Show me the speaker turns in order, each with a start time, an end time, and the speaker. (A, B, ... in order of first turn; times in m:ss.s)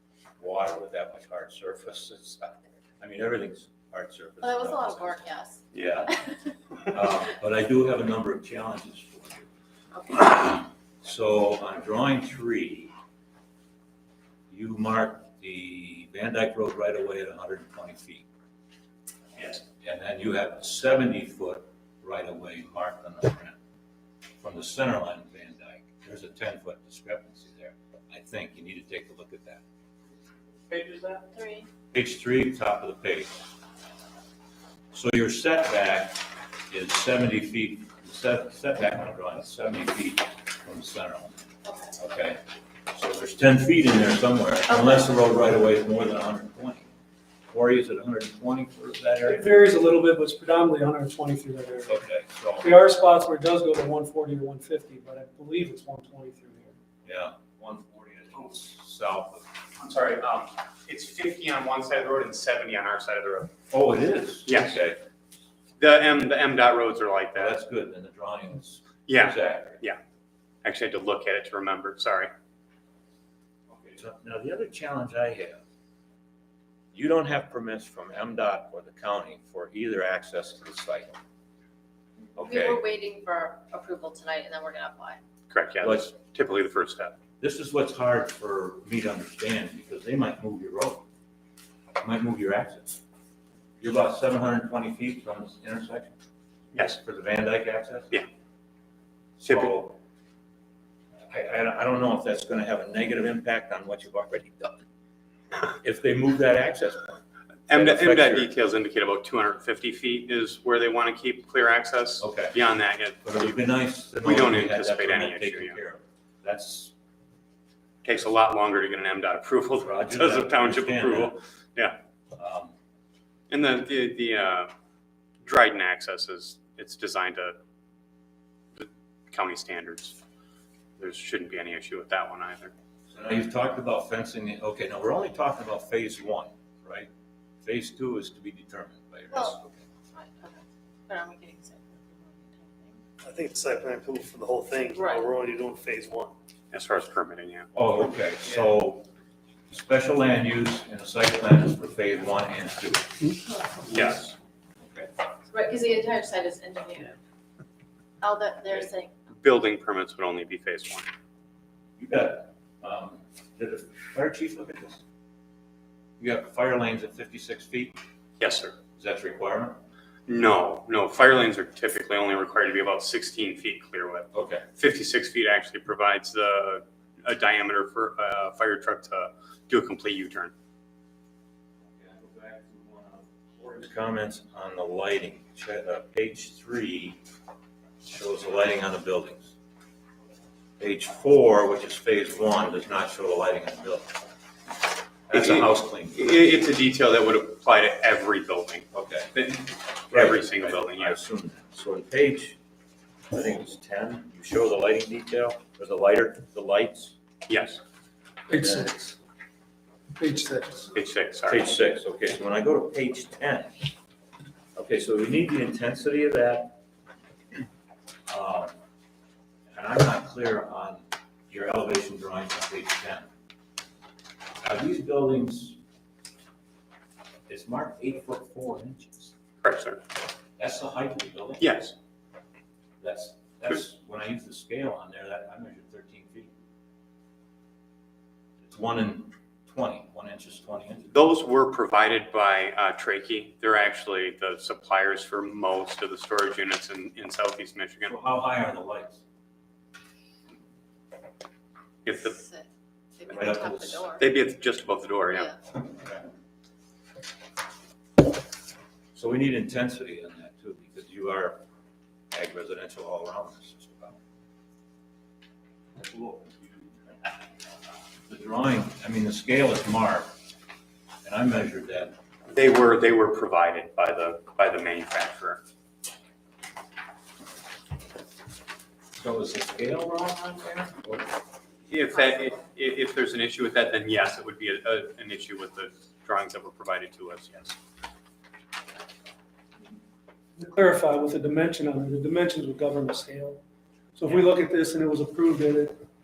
0:00.4-0:06.2 A
0:04.4-0:05.6 B
0:06.8-0:09.5 A
0:09.9-0:10.6 B
0:10.2-0:12.9 A
0:14.5-0:18.2 A
0:19.8-0:23.6 A
0:24.4-0:29.6 A
0:30.7-0:31.2 C
0:31.3-0:31.7 B
0:31.9-0:33.4 A
0:34.9-0:41.4 A
0:41.6-0:41.9 B
0:42.0-0:42.4 A
0:42.9-0:46.9 A
0:44.7-0:45.0 B
0:47.5-0:49.6 A
0:49.2-0:52.0 D
0:51.8-0:52.8 A
0:52.6-0:56.8 D
0:57.0-0:59.4 A
0:59.8-1:03.5 C
1:03.7-1:05.0 A
1:04.4-1:04.8 C
1:05.8-1:07.6 C
1:07.3-1:09.8 A
1:09.1-1:10.0 C
1:10.6-1:12.3 C
1:13.7-1:15.6 A
1:16.9-1:21.2 A
1:22.4-1:22.8 A
1:22.4-1:25.2 B
1:25.5-1:27.1 C
1:25.8-1:26.1 A
1:27.4-1:31.0 A
1:32.0-1:33.0 A
1:33.8-1:36.1 A
1:36.7-1:37.0 C
1:36.8-1:38.2 A
1:39.4-1:40.0 A
1:39.5-1:39.7 C
1:41.3-1:44.8 A
1:45.6-1:48.5 A
1:47.7-1:53.6 C
1:52.2-1:52.6 A
1:53.2-1:56.9 A
1:54.2-1:55.8 C
1:58.0-2:02.0 C
1:59.8-2:01.4 A
2:02.3-2:02.7 A
2:03.5-2:04.7 C
2:05.4-2:07.6 C
2:08.8-2:10.2 C
2:11.0-2:12.7 C
2:13.1-2:17.1 A
2:17.6-2:19.8 A
2:20.1-2:23.0 B
2:23.2-2:26.3 E
2:24.9-2:25.3 B
2:26.7-2:27.7 C
2:27.7-2:29.0 A
2:29.7-2:33.3 A
2:33.9-2:34.3 C
2:34.8-2:35.1 A
2:35.5-2:37.2 B
2:38.2-2:39.1 B
2:39.3-2:41.1 C
2:42.0-2:45.0 A
2:46.2-2:48.0 A
2:48.4-2:48.8 C
2:49.0-2:49.8 A
2:50.3-3:00.5 C
2:54.3-2:54.6 A
3:02.0-3:07.2 A
3:08.0-3:09.5 A
3:10.8-3:14.2 A
3:15.3-3:16.3 A
3:15.3-3:21.2 C
3:18.9-3:19.3 A
3:20.1-3:22.6 A
3:23.3-3:27.2 A
3:27.5-3:27.8 C
3:28.5-3:29.2 D
3:28.6-3:28.8 A
3:30.2-3:30.9 D
3:30.9-3:31.7 C
3:31.4-3:33.8 A
3:34.8-3:36.8 A
3:38.3-3:38.7 A
3:39.7-3:43.3 A
3:44.6-3:45.8 A
3:47.5-3:49.3 A
3:49.6-3:50.0 C
3:50.6-3:51.7 A
3:51.6-3:51.9 C
3:53.0-3:56.5 A
3:58.6-4:01.1 A
4:01.1-4:08.1 C
4:08.0-4:09.2 A
4:12.0-4:12.4 C
4:12.2-4:12.7 B
4:13.2-4:14.2 B
4:13.3-4:14.1 A
4:14.2-4:15.6 C
4:19.1-4:21.6 A
4:22.3-4:24.2 A
4:26.0-4:27.1 A
4:28.3-4:30.3 A
4:31.2-4:32.2 A
4:32.5-4:35.6 C
4:39.2-4:41.3 A
4:41.9-4:47.8 C
4:50.6-4:53.6 D
4:54.1-4:56.0 D